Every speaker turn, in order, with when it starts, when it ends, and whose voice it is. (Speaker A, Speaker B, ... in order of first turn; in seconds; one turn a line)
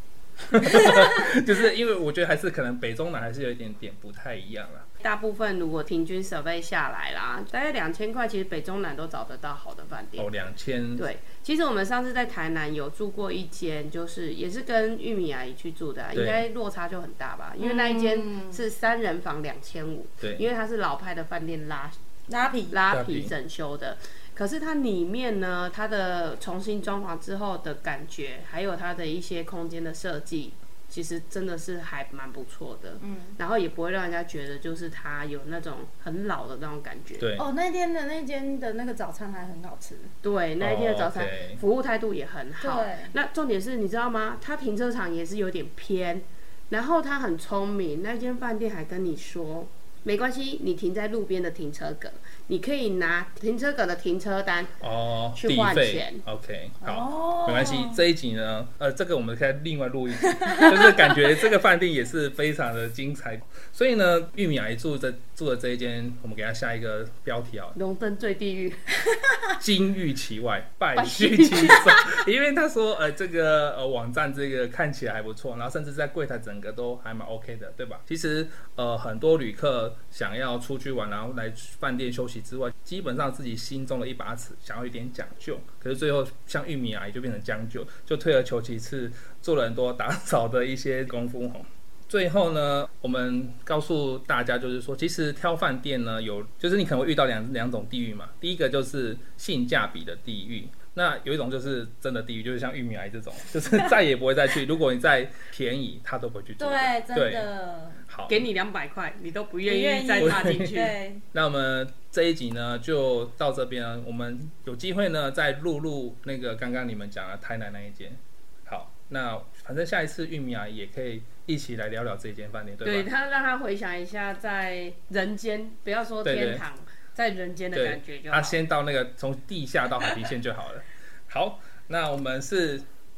Speaker A: 0.4-4.8
Speaker B: 5.0-10.3
Speaker A: 10.2-11.0
Speaker B: 11.0-21.9
Speaker A: 16.1-16.5
Speaker C: 17.6-18.6
Speaker A: 20.2-20.5
Speaker C: 22.3-22.8
Speaker B: 22.7-37.3
Speaker A: 22.9-23.3
Speaker C: 33.0-33.4
Speaker A: 37.2-37.4
Speaker C: 37.4-40.1
Speaker B: 40.2-54.7
Speaker A: 40.6-41.6
Speaker C: 42.6-43.1
Speaker A: 54.8-67.8
Speaker B: 55.4-56.2
Speaker C: 56.8-58.0
Speaker C: 60.2-61.1
Speaker B: 67.7-68.9
Speaker A: 69.6-107.5
Speaker B: 70.9-72.2
Speaker C: 106.6-108.0
Speaker A: 108.1-108.4
Speaker B: 108.3-111.0
Speaker C: 109.7-111.2
Speaker A: 110.2-110.8
Speaker A: 111.3-123.1
Speaker B: 122.8-128.6
Speaker A: 126.2-126.6
Speaker A: 127.7-132.8